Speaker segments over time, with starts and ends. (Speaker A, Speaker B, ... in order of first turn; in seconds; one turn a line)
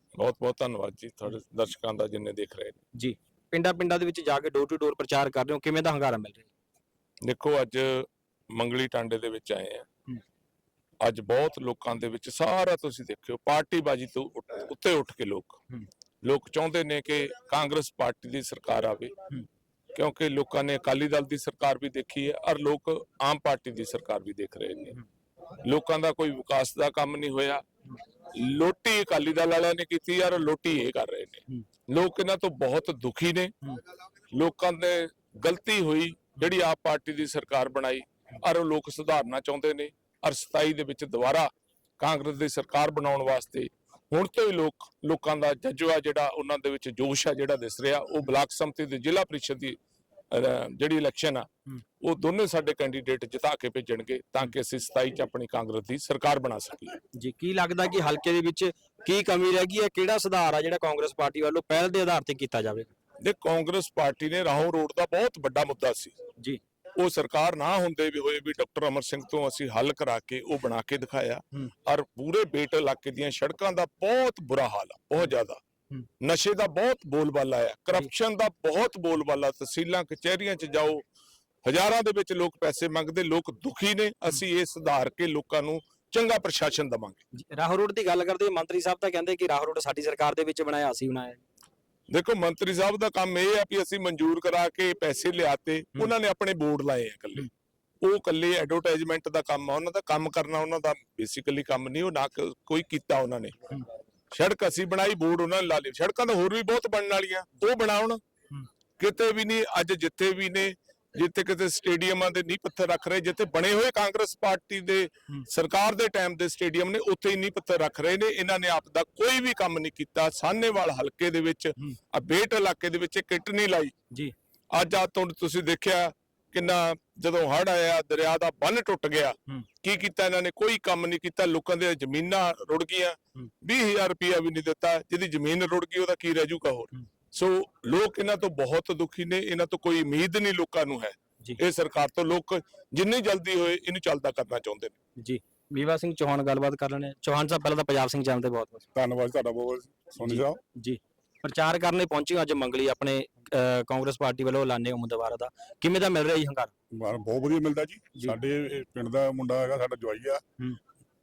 Speaker A: 0.2-2.8
Speaker B: 2.9-6.5
Speaker A: 7.2-9.8
Speaker A: 11.0-15.6
Speaker A: 16.2-19.2
Speaker A: 19.9-25.0
Speaker A: 25.6-27.6
Speaker A: 28.3-33.5
Speaker A: 34.3-49.8
Speaker A: 50.3-51.5
Speaker A: 52.0-57.0
Speaker B: 57.1-62.9
Speaker A: 63.2-66.1
Speaker A: 67.0-75.6
Speaker A: 76.2-81.0
Speaker A: 81.6-87.2
Speaker B: 87.3-91.4
Speaker A: 92.1-97.5
Speaker A: 98.0-103.8
Speaker A: 104.3-108.2
Speaker A: 109.0-123.9
Speaker A: 124.7-144.9
Speaker B: 145.2-148.9
Speaker C: 148.9-150.6
Speaker B: 150.2-156.7
Speaker C: 156.9-160.4